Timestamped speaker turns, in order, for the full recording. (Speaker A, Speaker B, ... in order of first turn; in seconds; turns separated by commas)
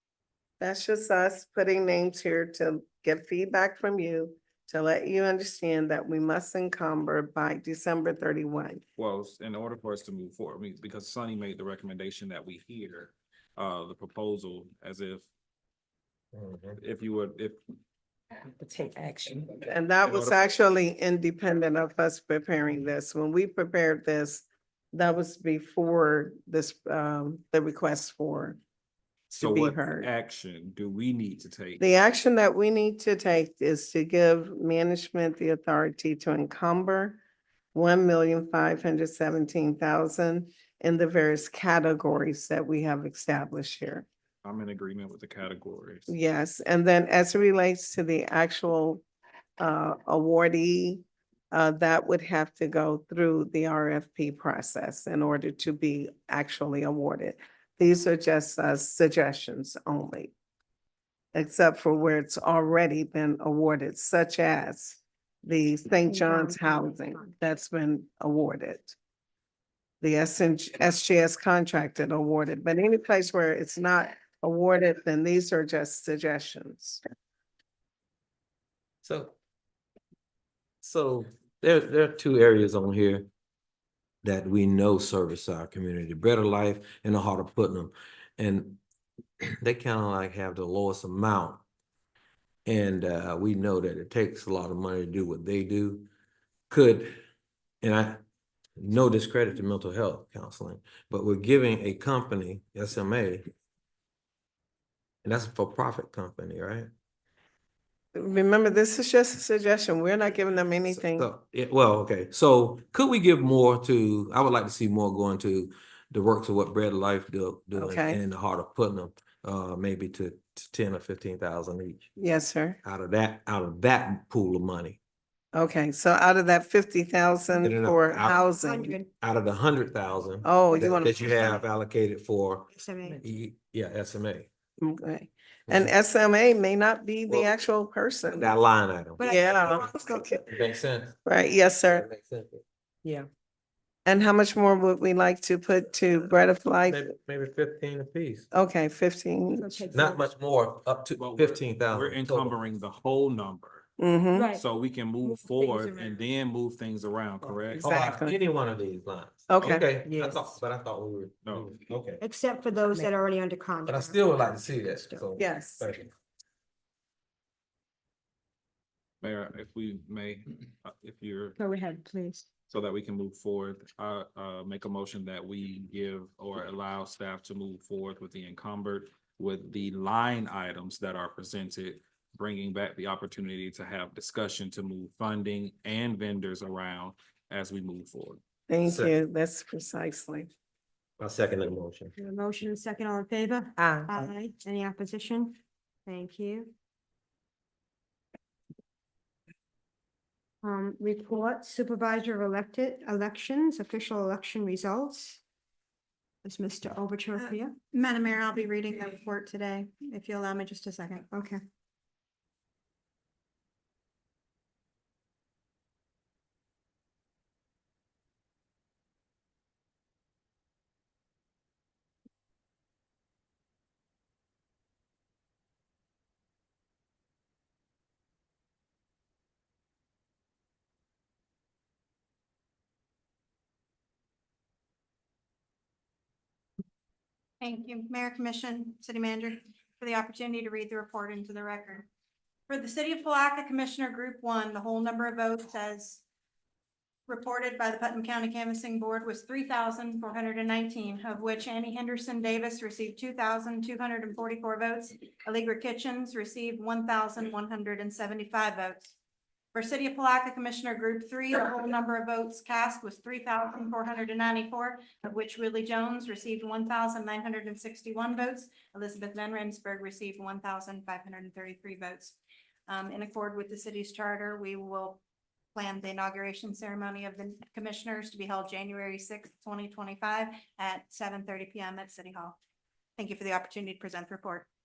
Speaker A: 0.6-8.8, Speaker B: 9.0-15.3, Speaker C: 16.3-16.8, Speaker B: 16.8-17.6, Speaker D: 18.4-19.6, Speaker A: 19.7-28.6, Speaker B: 20.1-20.5, Speaker A: 29.3-30.1, Speaker B: 29.4-31.8, Speaker A: 31.8-37.2, Speaker A: 37.7-44.0, Speaker B: 44.4-46.1, Speaker A: 46.1-49.0, Speaker A: 49.6-60.3, Speaker A: 61.3-69.0, Speaker E: 66.1-67.3, Speaker A: 70.0-77.0, Speaker C: 79.0-79.3, Speaker C: 80.8-83.3, Speaker C: 84.2-88.8, Speaker C: 89.6-91.6, Speaker C: 92.7-96.1, Speaker C: 96.7-97.1, Speaker C: 97.8-98.2, Speaker C: 98.8-103.5, Speaker C: 105.2-106.9, Speaker A: 108.2-111.3, Speaker C: 110.9-122.1, Speaker A: 117.8-118.2, Speaker A: 122.2-122.8, Speaker C: 122.8-125.0, Speaker A: 125.5-129.0, Speaker C: 127.6-128.4, Speaker E: 128.2-129.1, Speaker C: 129.2-132.7, Speaker A: 130.4-131.6, Speaker E: 132.7-133.2, Speaker C: 133.2-134.5, Speaker A: 134.8-138.5, Speaker C: 138.4-139.9, Speaker E: 139.2-140.2, Speaker A: 139.2-140.5, Speaker C: 140.5-141.2, Speaker A: 141.2-142.1, Speaker C: 141.9-142.6, Speaker A: 144.1-147.0, Speaker C: 146.8-148.5, Speaker A: 148.5-149.8, Speaker E: 149.5-150.3, Speaker C: 149.9-152.6, Speaker B: 151.2-153.9, Speaker A: 154.0-154.5, Speaker E: 154.3-154.6, Speaker B: 154.5-157.9, Speaker E: 155.2-156.2, Speaker A: 157.7-158.4, Speaker C: 157.8-162.2, Speaker A: 159.5-159.9, Speaker D: 160.0-160.6, Speaker E: 162.2-165.3, Speaker C: 163.9-166.1, Speaker A: 165.4-165.9, Speaker B: 169.2-171.6, Speaker E: 171.6-172.5, Speaker B: 172.7-188.4, Speaker A: 188.7-190.5, Speaker C: 188.8-189.1, Speaker C: 191.2-192.1, Speaker E: 192.2-196.7, Speaker D: 193.8-194.3, Speaker E: 200.6-205.4, Speaker E: 206.4-207.8, Speaker F: 207.4-211.3, Speaker E: 211.3-211.6, Speaker F: 237.6-242.1, Speaker F: 242.7-246.2, Speaker F: 247.3-259.1, Speaker F: 259.7-275.2, Speaker F: 275.8-282.6, Speaker F: 283.2-284.7